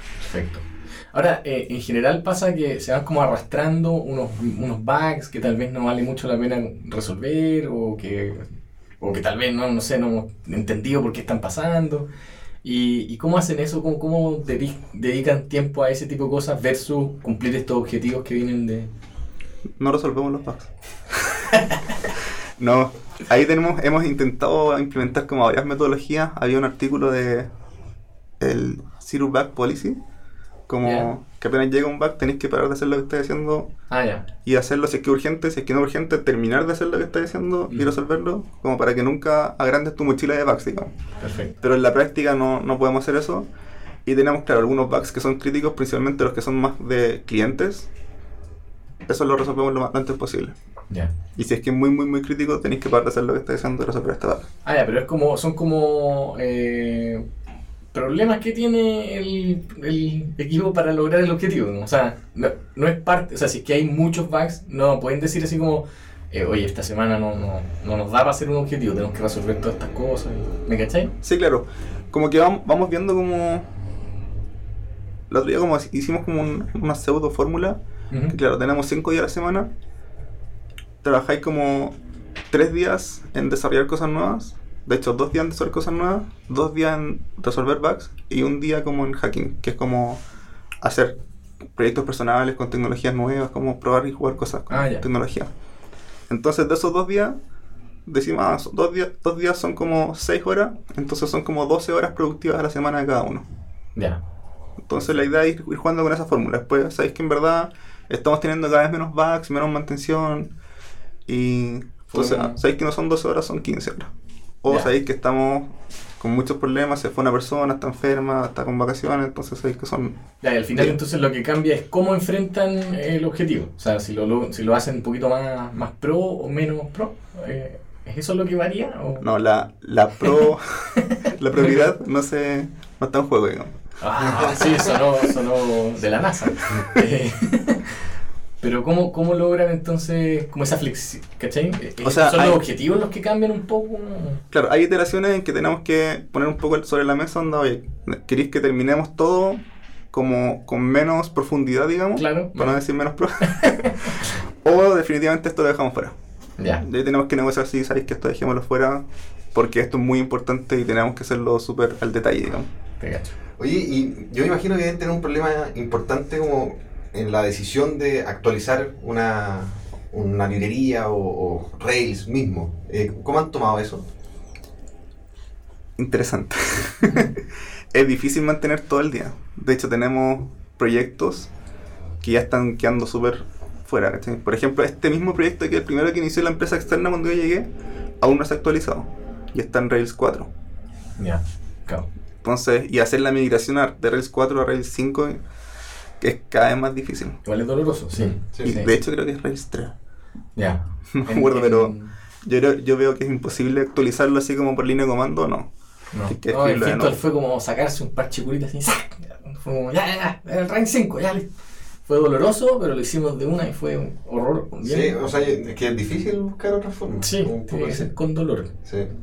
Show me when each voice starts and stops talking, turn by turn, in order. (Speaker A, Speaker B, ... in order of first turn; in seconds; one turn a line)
Speaker A: 0.2-8.5
Speaker A: 9.0-12.1
Speaker A: 12.6-18.9
Speaker B: 19.8-21.5
Speaker A: 21.5-21.8
Speaker B: 22.6-27.5
Speaker B: 28.4-30.0
Speaker B: 30.7-33.7
Speaker A: 30.8-31.1
Speaker A: 33.9-34.3
Speaker B: 34.4-40.9
Speaker A: 41.2-41.5
Speaker B: 41.6-43.5
Speaker B: 44.0-47.9
Speaker B: 49.1-50.5
Speaker B: 51.4-54.5
Speaker A: 54.6-57.2
Speaker A: 57.9-71.1
Speaker B: 71.2-73.7
Speaker B: 75.3-77.8
Speaker A: 78.1-78.4
Speaker B: 78.3-79.7
Speaker B: 81.0-81.9
Speaker B: 82.5-90.2
Speaker B: 90.8-91.1
Speaker B: 91.8-95.5
Speaker A: 94.7-95.0
Speaker B: 96.3-97.3
Speaker B: 98.0-103.4
Speaker B: 104.9-110.5
Speaker B: 111.3-114.1
Speaker A: 112.1-112.6
Speaker B: 114.6-120.2
Speaker A: 114.7-114.9
Speaker A: 120.4-129.3
Speaker B: 129.2-133.8
Speaker A: 131.0-131.9
Speaker A: 134.0-138.0
Speaker A: 138.6-144.4
Speaker B: 142.0-142.6
Speaker B: 144.5-149.6
Speaker B: 150.1-156.1
Speaker A: 152.2-152.8
Speaker A: 153.4-154.3
Speaker A: 156.6-156.8
Speaker B: 156.8-162.7
Speaker A: 163.0-163.3
Speaker C: 163.6-174.0
Speaker B: 176.0-181.5
Speaker B: 182.2-187.7
Speaker B: 188.2-190.5
Speaker A: 191.2-192.1
Speaker B: 192.4-195.4
Speaker B: 196.2-197.4
Speaker A: 197.4-198.9
Speaker C: 198.4-198.8
Speaker B: 198.6-199.9
Speaker A: 200.6-202.1
Speaker B: 201.1-205.7
Speaker A: 206.1-211.5
Speaker B: 206.3-207.2
Speaker A: 212.1-215.3
Speaker C: 214.8-218.1
Speaker A: 217.2-218.7